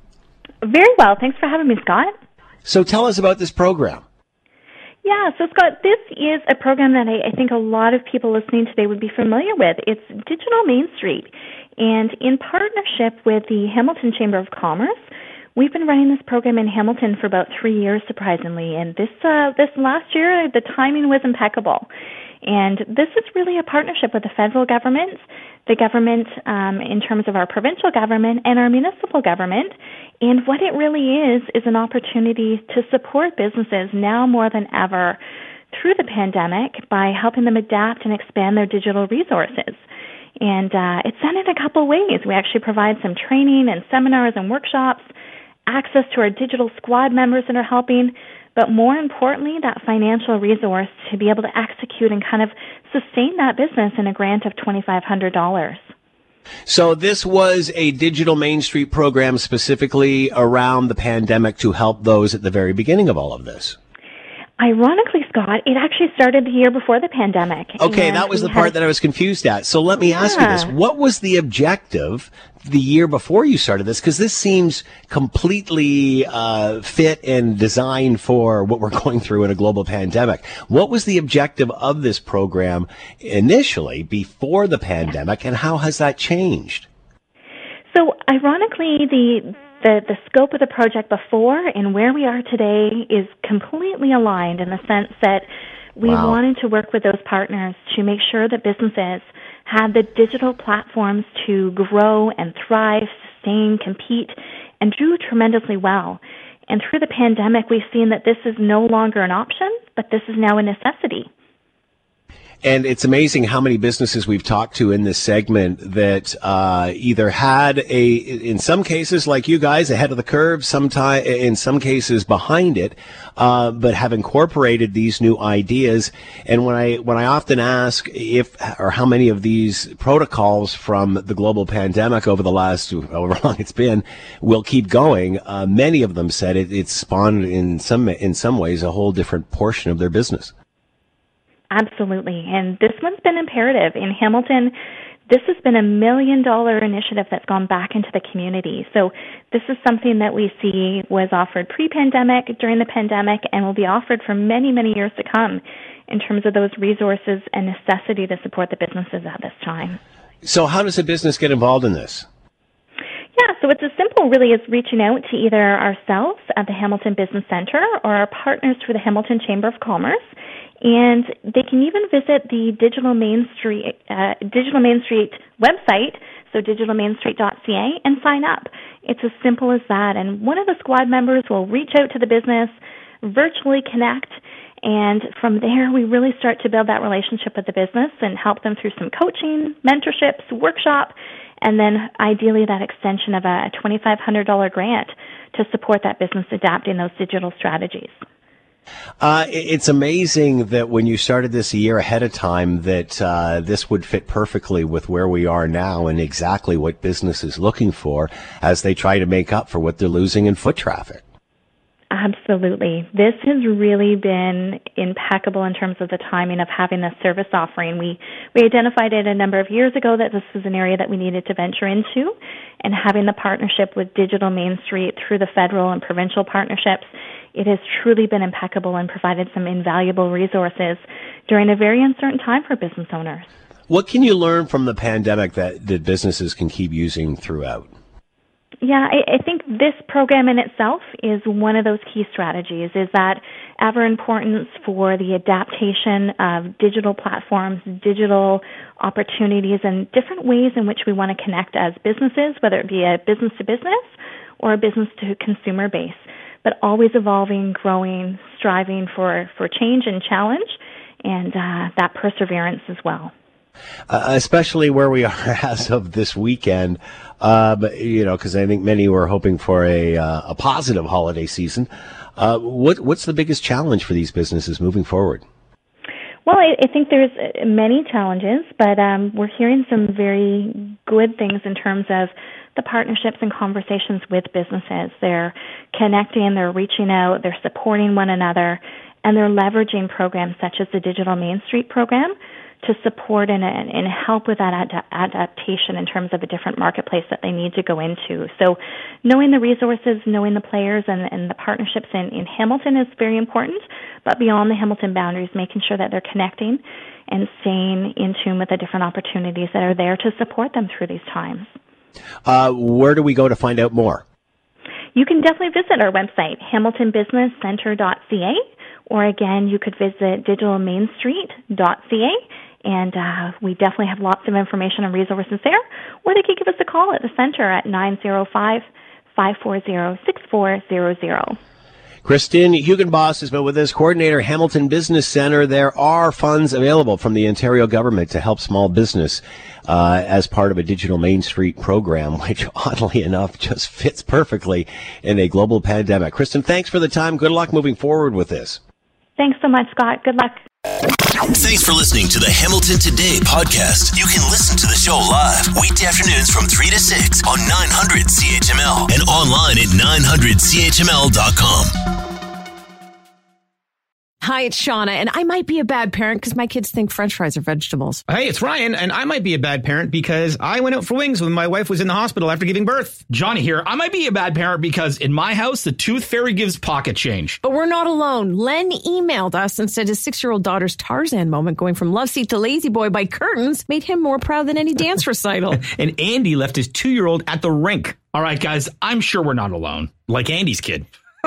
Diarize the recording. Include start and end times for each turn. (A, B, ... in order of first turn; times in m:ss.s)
0:00.6-0:02.1 A
0:02.6-0:04.0 B
0:05.0-0:15.0 A
0:15.6-0:21.9 A
0:22.4-0:35.2 A
0:35.7-0:39.8 A
0:40.4-0:45.1 A
0:45.7-0:55.9 A
0:56.7-1:03.8 B
1:04.6-1:08.8 A
1:07.8-1:26.9 B
1:10.2-1:10.7 A
1:27.9-1:51.3 A
1:36.0-1:36.4 B
1:52.6-2:20.5 B
2:21.7-2:24.7 A
2:25.3-2:40.0 A
2:40.4-2:42.3 B
2:43.4-2:50.2 A
2:50.8-3:18.1 A
3:19.2-3:31.2 B
3:32.1-3:53.5 A
3:53.9-3:57.9 B
3:58.8-4:23.3 A
4:24.1-4:35.4 B
4:36.4-5:11.7 A
5:12.5-5:14.2 B
5:15.2-5:31.6 A
5:32.2-5:48.8 B
5:49.4-5:50.6 A
5:51.4-6:02.0 C
6:04.4-6:08.2 D
6:08.3-6:13.2 E
6:13.3-6:17.6 F
6:17.6-6:25.8 D
6:25.7-6:28.2 E
6:28.3-6:31.1 F